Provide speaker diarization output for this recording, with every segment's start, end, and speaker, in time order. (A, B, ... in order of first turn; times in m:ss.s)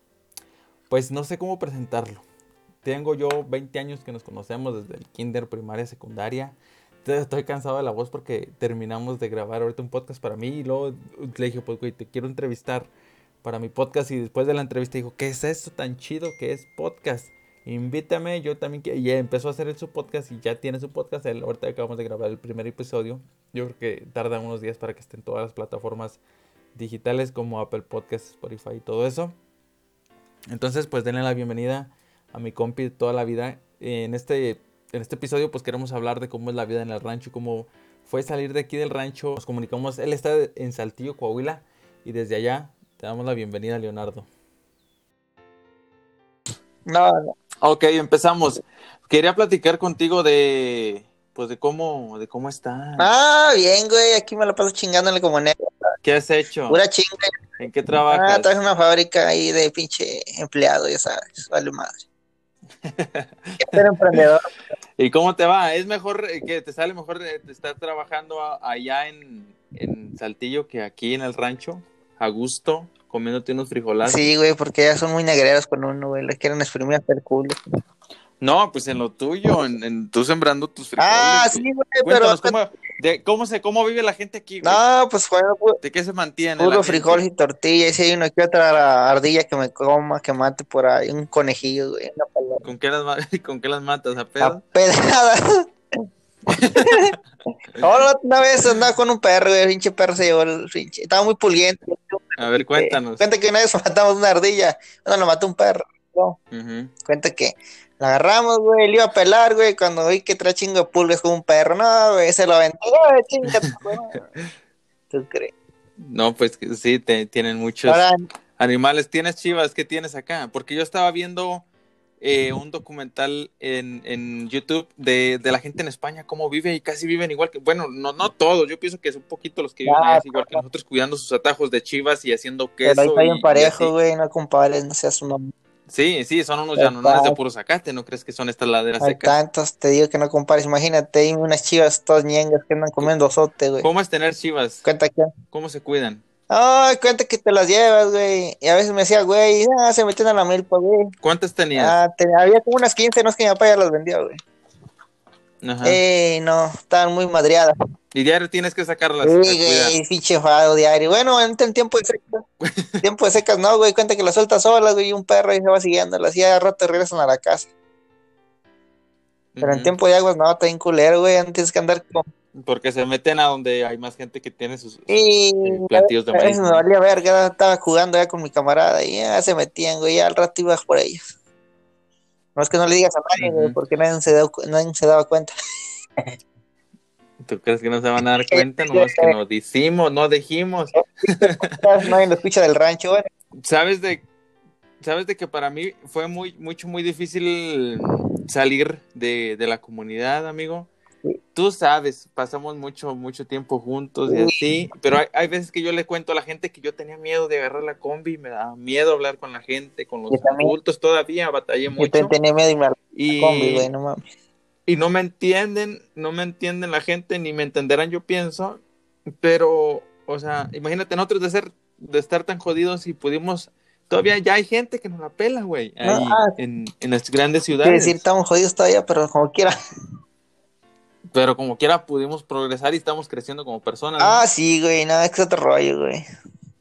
0:00.9-0:02.2 A
0:02.8-0:12.9 A
0:13.4-0:26.2 A
0:26.8-0:29.4 A
0:30.5-0:44.3 A
0:46.9-0:47.3 B
0:47.6-0:53.1 A
0:53.0-0:55.6 B
0:56.0-0:56.8 A
0:56.7-0:57.3 B
0:57.6-0:58.5 A
0:58.1-1:02.0 B
1:02.8-1:04.2 A
1:03.6-1:04.4 B
1:05.0-1:14.3 A
1:14.0-1:17.6 B
1:18.4-1:24.8 A
1:21.0-1:22.5 B
1:24.6-1:25.8 B
1:25.8-1:27.2 A
1:26.6-1:32.6 B
1:32.6-1:34.6 A
1:34.4-1:35.7 B
1:36.5-1:37.2 A
1:36.8-1:37.1 B
1:37.8-1:46.4 B
1:42.4-1:43.2 A
1:46.5-1:46.9 A
1:47.0-1:54.3 B
1:55.1-1:55.5 B
1:56.0-1:58.0 A
1:57.9-1:58.2 B
1:58.6-2:01.6 A
2:02.2-2:13.9 A
2:09.8-2:10.6 B
2:12.8-2:15.5 B
2:15.9-2:19.4 A
2:16.8-2:17.4 B
2:19.0-2:23.9 B
2:23.8-2:24.9 A
2:24.8-2:25.3 B
2:25.5-2:26.2 A
2:26.5-2:31.1 B
2:31.2-2:32.0 A
2:31.8-2:34.4 B
2:35.6-2:36.0 A
2:35.8-2:37.7 B
2:38.1-2:40.0 A
2:39.2-2:42.4 B
2:42.6-2:43.0 A
2:43.0-2:47.7 B
2:49.6-2:49.9 A
2:49.6-2:52.2 B
2:52.6-2:56.8 A
2:55.1-3:01.2 B
3:02.6-3:05.5 B
3:03.4-3:03.8 A
3:07.4-3:11.8 A
3:08.5-3:09.3 B
3:11.7-3:13.2 B
3:13.6-3:14.2 A
3:15.0-3:20.9 A
3:21.5-3:32.3 A
3:24.3-3:24.6 B
3:30.3-3:30.7 B
3:32.0-3:34.2 B
3:33.2-3:33.9 A
3:34.9-3:38.8 A
3:39.4-3:48.2 A
3:46.0-3:46.5 B
3:47.8-3:49.8 B
3:51.3-3:54.4 A
3:54.2-3:56.2 B